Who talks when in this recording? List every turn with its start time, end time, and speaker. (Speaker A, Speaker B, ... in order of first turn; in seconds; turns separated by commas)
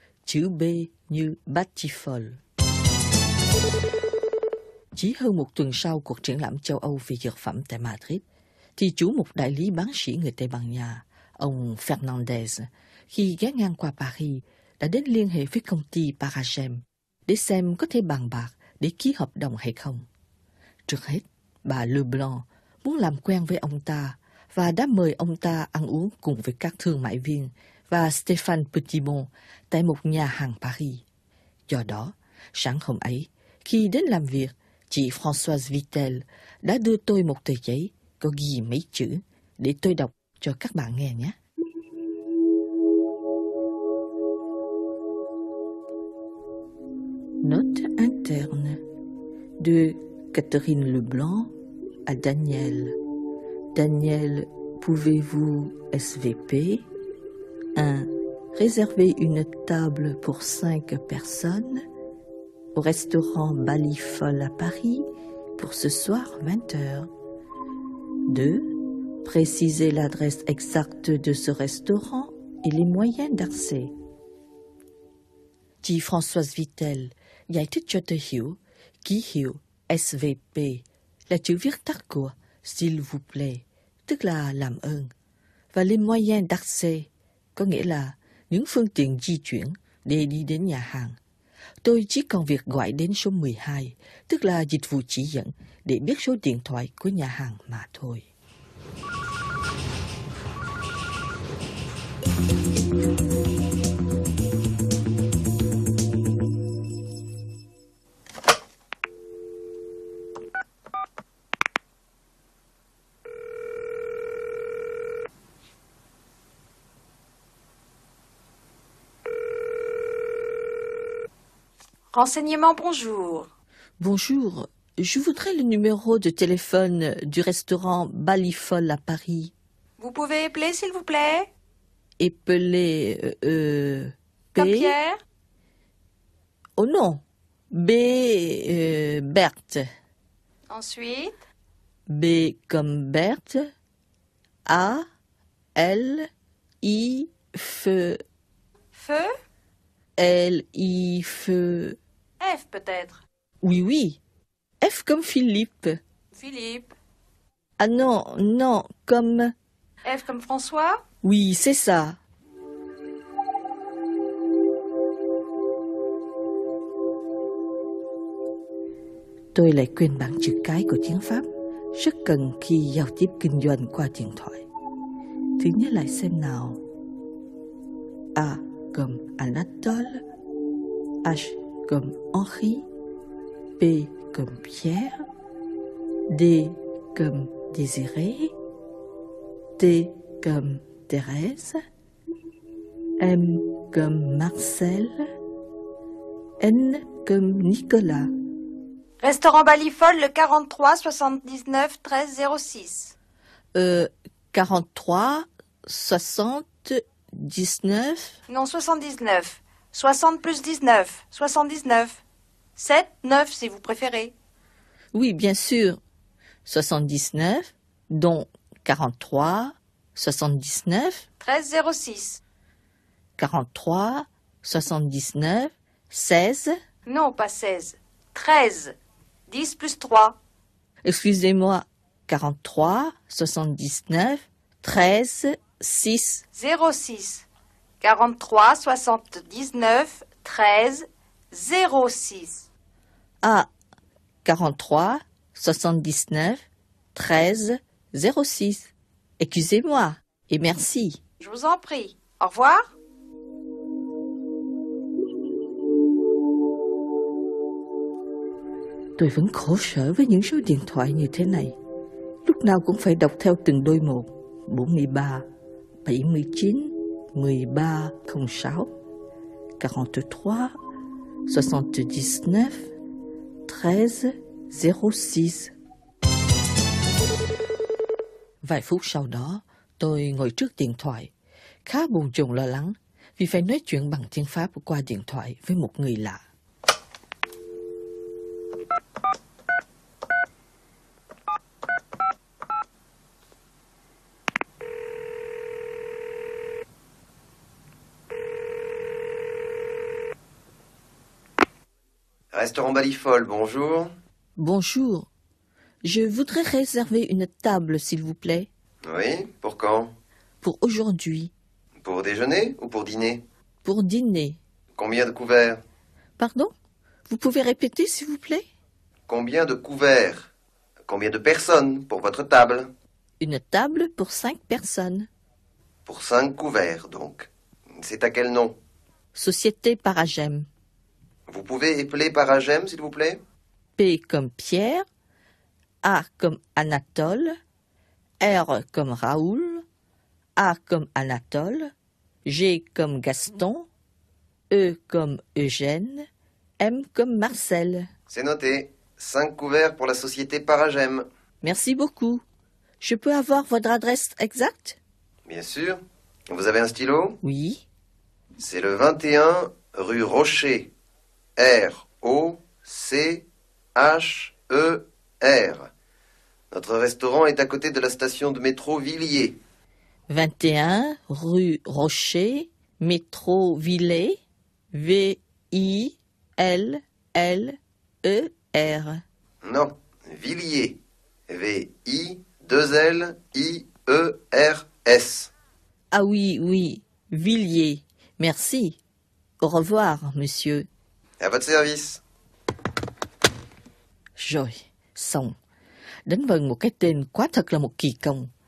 Speaker A: 0.2-2.4, Speaker A: 4.9-8.2, Speaker A: 8.8-20.0, Speaker A: 20.9-31.0, Speaker A: 31.7-41.4, Speaker A: 47.4-48.8, Speaker A: 49.6-51.5, Speaker A: 52.0-53.0, Speaker A: 53.7-56.9, Speaker A: 57.7-61.8, Speaker A: 62.7-67.1, Speaker A: 68.3-73.9, Speaker A: 75.8-85.1, Speaker A: 85.7-91.2, Speaker A: 91.8-98.2, Speaker B: 122.1-123.5, Speaker A: 124.0-129.5, Speaker B: 130.0-131.5, Speaker A: 132.2-134.9, Speaker B: 134.6-135.2, Speaker A: 136.8-137.2, Speaker A: 137.7-139.9, Speaker B: 140.7-141.3, Speaker A: 142.1-143.7, Speaker A: 144.7-145.1, Speaker A: 145.8-146.3, Speaker A: 146.8-148.2, Speaker B: 148.9-149.3, Speaker A: 150.2-152.0, Speaker B: 152.4-153.2, Speaker A: 153.6-154.2, Speaker A: 154.8-156.0, Speaker B: 156.3-156.9, Speaker A: 157.8-159.5, Speaker B: 160.0-161.0, Speaker A: 161.2-162.2, Speaker A: 169.5-174.7, Speaker A: 175.6-176.8, Speaker A: 178.3-180.2, Speaker A: 181.2-182.9, Speaker A: 183.8-185.2, Speaker A: 186.3-188.5, Speaker A: 189.8-191.8, Speaker A: 193.2-195.3, Speaker A: 196.6-198.3, Speaker B: 199.2-203.1, Speaker A: 203.7-208.4, Speaker B: 208.5-212.2, Speaker B: 212.8-214.3, Speaker A: 215.1-216.0, Speaker A: 216.6-221.2, Speaker B: 221.4-222.4, Speaker A: 223.4-226.7, Speaker B: 227.1-228.9, Speaker B: 229.5-230.4, Speaker A: 231.0-236.4, Speaker B: 236.5-237.4, Speaker B: 238.0-242.7, Speaker A: 243.4-243.7, Speaker A: 244.4-246.6, Speaker A: 247.1-251.2, Speaker B: 251.4-252.9, Speaker A: 259.2-261.8, Speaker A: 262.4-265.4, Speaker A: 266.0-268.9, Speaker A: 269.8-270.7, Speaker A: 271.5-272.9, Speaker A: 273.6-275.7, Speaker A: 278.6-281.3, Speaker A: 281.8-286.4, Speaker C: 302.5-304.1, Speaker A: 304.6-305.3, Speaker A: 306.0-308.7, Speaker C: 309.0-310.1, Speaker A: 310.6-311.5, Speaker C: 312.0-313.4, Speaker A: 313.8-314.6, Speaker C: 314.9-315.8, Speaker A: 316.4-316.7, Speaker A: 317.3-318.7, Speaker C: 319.3-320.5, Speaker C: 321.1-322.9, Speaker A: 323.4-325.3, Speaker C: 326.1-328.8, Speaker A: 329.3-330.7, Speaker C: 331.5-333.4, Speaker A: 334.0-335.1, Speaker A: 336.0-337.6, Speaker A: 338.4-339.8, Speaker A: 340.6-341.9, Speaker A: 342.4-343.9, Speaker A: 344.7-346.3, Speaker A: 346.8-348.1, Speaker C: 348.3-351.2, Speaker A: 351.6-352.4, Speaker A: 353.0-355.0, Speaker C: 355.5-357.4, Speaker A: 357.4-357.8, Speaker C: 358.6-360.9, Speaker C: 361.6-365.9, Speaker C: 366.7-369.6, Speaker A: 370.3-374.4, Speaker A: 374.9-379.2, Speaker C: 379.6-385.5, Speaker A: 386.1-389.0, Speaker A: 389.6-390.9, Speaker C: 391.4-392.2, Speaker A: 394.4-395.5, Speaker A: 396.2-398.5